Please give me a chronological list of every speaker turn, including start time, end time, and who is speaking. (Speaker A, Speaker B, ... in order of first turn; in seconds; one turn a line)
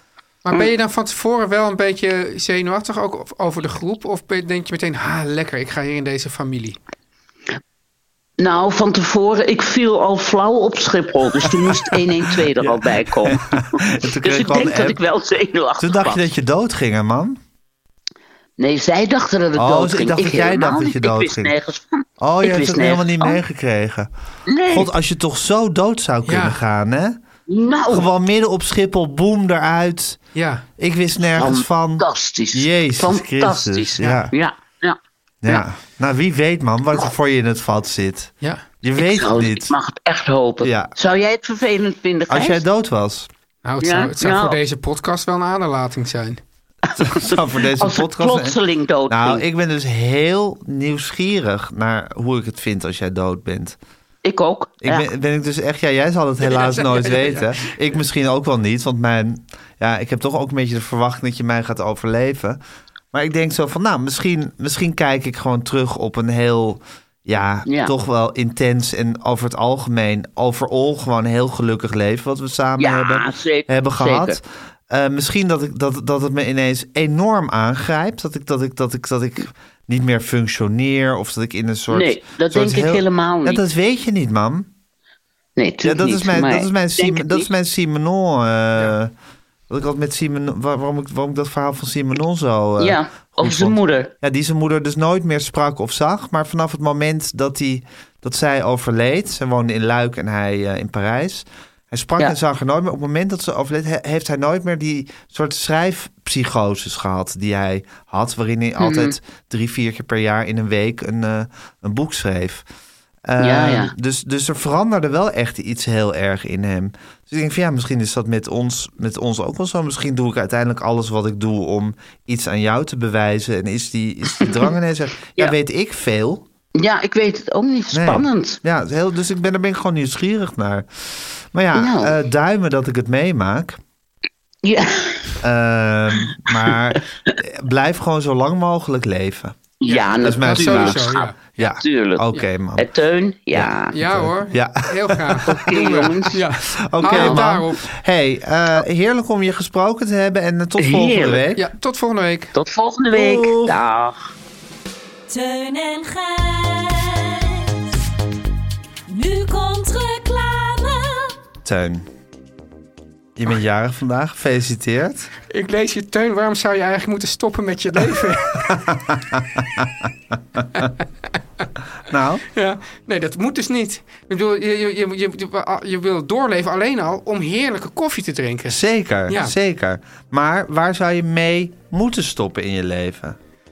Speaker A: 0.5-6.8
Speaker B: 8.4-16.2
Speaker C: 12.6-15.0
Speaker C: 15.8-17.4
Speaker B: 18.6-23.4
Speaker C: 19.6-21.5
Speaker C: 22.2-24.1
Speaker B: 24.5-24.9
Speaker C: 24.7-27.2
Speaker A: 26.3-26.6
Speaker B: 27.5-28.1
Speaker C: 27.9-30.2
Speaker A: 30.4-30.6
Speaker C: 30.8-34.3
Speaker B: 31.4-35.6
Speaker C: 35.4-39.7
Speaker B: 39.0-42.6
Speaker C: 40.6-40.9
Speaker C: 42.3-43.3
Speaker A: 43.6-46.4
Speaker B: 43.8-44.6
Speaker B: 46.9-49.4
Speaker C: 47.0-48.6
Speaker C: 49.1-53.8
Speaker B: 54.2-55.1
Speaker C: 54.8-62.6
Speaker A: 56.4-57.7
Speaker C: 63.1-84.7
Speaker B: 67.7-67.9
Speaker B: 72.8-74.4
Speaker B: 81.9-83.6
Speaker B: 85.6-87.5
Speaker C: 85.8-89.1
Speaker C: 89.7-112.6
Speaker B: 92.8-94.1
Speaker B: 108.8-109.2
Speaker C: 113.3-126.5
Speaker B: 113.4-113.9
Speaker B: 126.8-128.6
Speaker C: 127.9-133.8
Speaker B: 131.7-132.1
Speaker B: 134.6-135.4
Speaker C: 135.4-142.9
Speaker B: 139.8-142.3
Speaker A: 139.9-141.6
Speaker B: 142.8-143.9
Speaker C: 143.5-145.7
Speaker A: 143.9-147.9
Speaker B: 145.5-146.4
Speaker C: 146.8-151.7
Speaker B: 147.1-147.4
Speaker B: 150.8-151.5
Speaker A: 151.6-152.5
Speaker B: 152.6-154.2
Speaker C: 153.1-153.8
Speaker D: 155.3-158.0
Speaker D: 159.1-161.3
Speaker C: 161.6-162.1
Speaker C: 163.4-165.3
Speaker A: 165.5-168.7
Speaker C: 168.6-169.9
Speaker C: 172.1-172.4
Speaker A: 172.6-179.6
Speaker C: 178.7-183.4